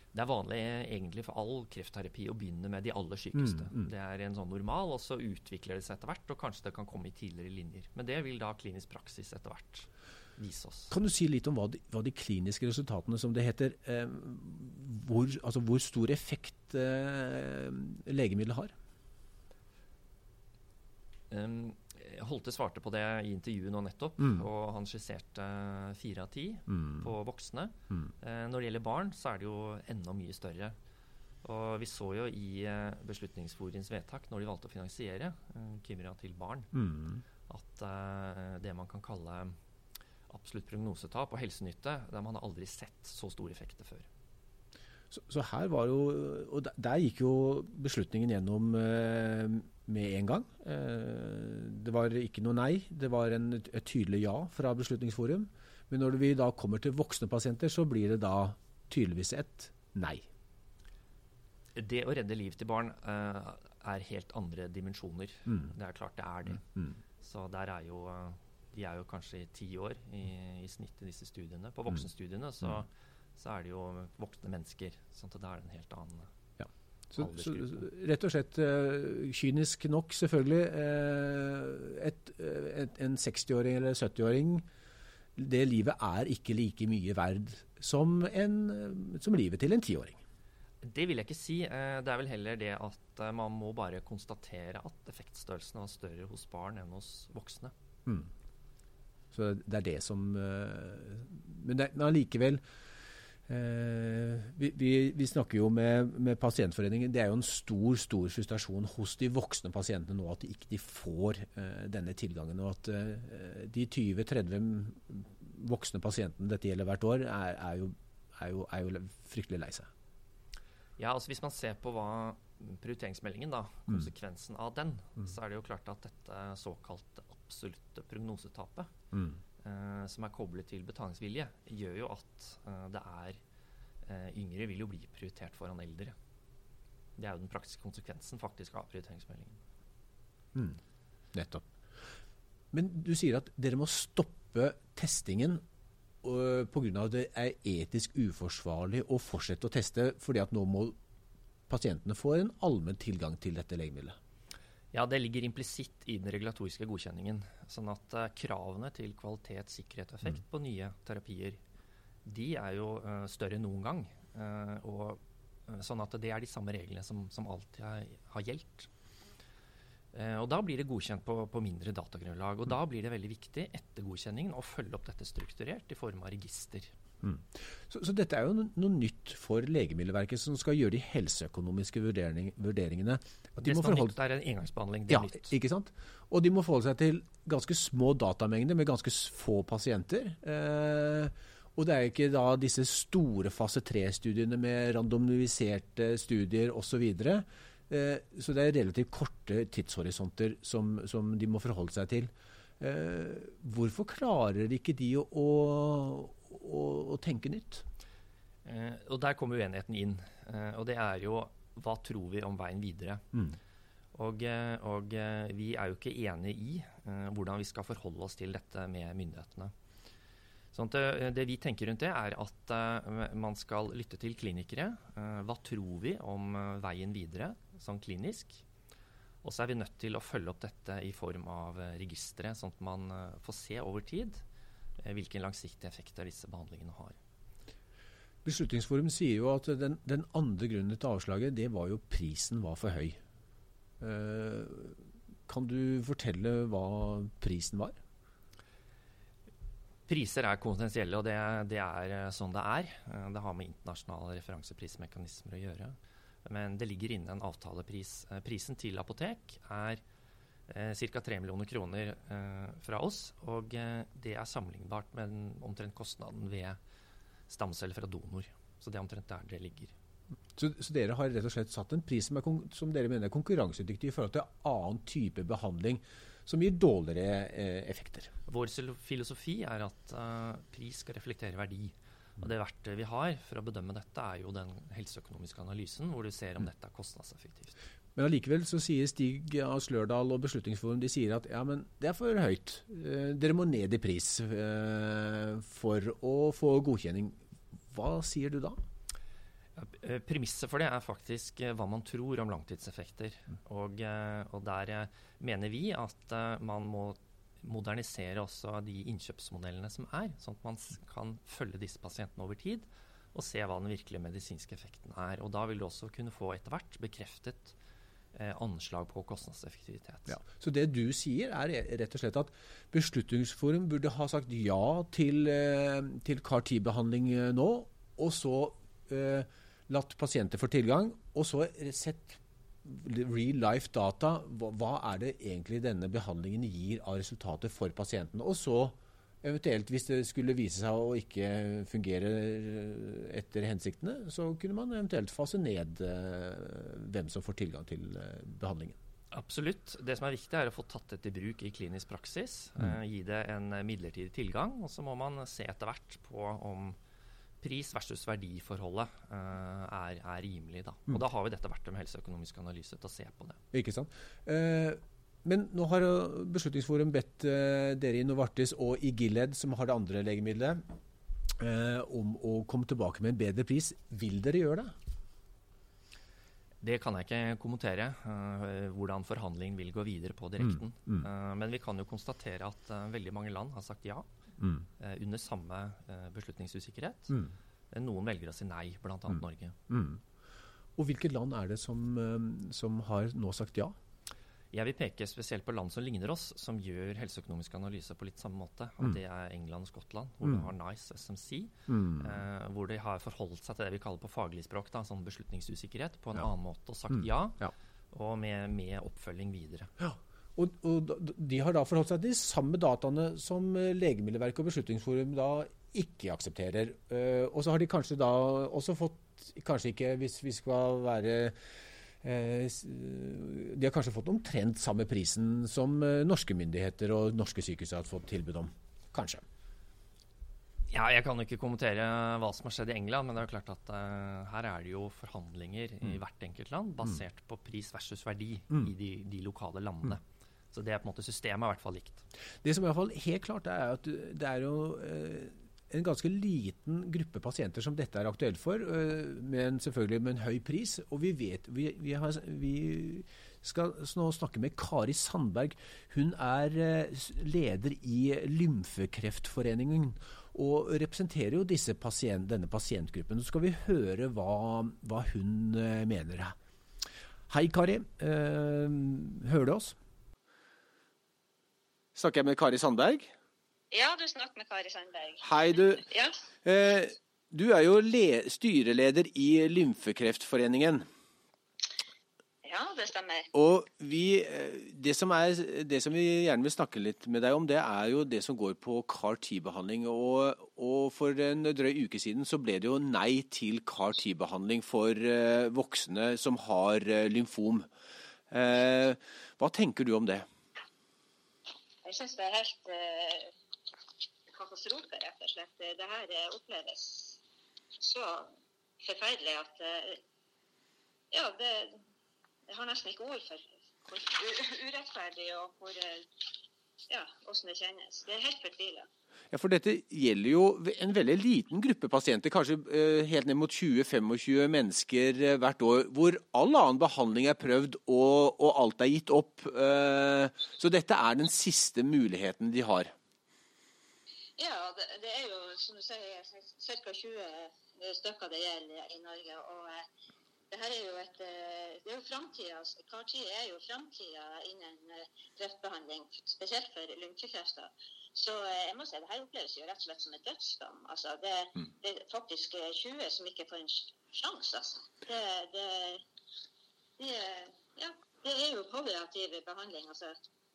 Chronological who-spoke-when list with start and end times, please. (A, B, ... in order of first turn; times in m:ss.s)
0:00.1-0:10.9 A
0:03.4-0:03.9 B
0:10.9-0:18.7 B
0:21.3-0:30.8 A
0:31.4-0:36.7 A
0:36.7-0:37.2 B
0:37.5-0:39.6 A
0:40.3-0:44.1 A
0:45.1-1:00.2 B
1:01.8-1:06.7 A
1:07.2-1:16.3 A
1:16.6-1:24.7 B
1:17.2-1:17.9 A
1:25.4-1:30.2 B
1:30.8-1:37.7 A
1:39.3-1:42.6 B
1:43.5-1:59.9 B
2:01.0-2:08.9 A
2:09.1-2:09.4 B
2:09.6-2:13.4 A
2:14.0-2:16.2 A
2:17.2-2:19.6 A
2:21.3-2:21.7 B
2:22.7-2:25.6 B
2:26.2-2:31.0 B
2:31.7-2:34.2 B
2:34.9-2:41.6 A
2:42.2-2:48.9 A
2:50.1-2:56.9 A
2:57.2-3:04.2 B
3:03.6-3:05.5 A
3:05.1-3:27.8 B
3:28.6-3:33.3 A
3:34.2-3:39.7 A
3:40.7-3:48.6 A
3:49.4-3:54.4 A
3:55.0-3:57.2 A
3:58.4-4:03.2 B
4:04.0-4:08.0 B
4:10.1-4:20.0 A
4:20.7-4:26.8 A
4:27.5-4:29.9 A
4:30.6-4:38.3 B
4:38.5-4:47.8 A
4:48.2-4:58.8 B
4:59.8-5:17.8 A
5:18.3-5:20.4 A
5:20.3-5:49.0 B
5:49.3-5:57.0 A
5:57.6-6:03.6 A
6:03.7-6:10.8 B
6:11.6-6:15.0 B
6:16.8-6:24.3 A
6:20.6-6:21.3 B
6:24.6-6:24.8 B
6:25.0-6:27.4 A
6:27.9-6:29.8 A
6:29.9-6:30.2 B
6:31.0-6:34.0 B
6:34.7-6:49.9 A
6:41.9-6:42.4 B
6:47.1-6:47.7 B
6:50.0-7:01.6 B
7:02.2-7:09.4 B
7:10.9-7:22.2 A
7:22.6-7:46.6 B
7:47.5-7:50.0 B
7:52.2-7:53.3 B
7:53.9-7:56.4 C
7:55.4-7:56.0 B
7:56.6-8:01.1 B
8:02.6-8:03.5 C
8:03.5-8:17.9 B
8:18.5-8:20.5 B
8:22.0-8:23.5 C
8:24.5-8:27.4 C
8:28.0-8:30.2 C
8:31.3-8:32.0 C
8:32.7-8:36.4 C
8:37.1-8:39.1 C
8:39.5-8:53.1 B
8:54.6-9:00.0 C
9:00.7-9:16.2 C
9:17.2-9:20.4 C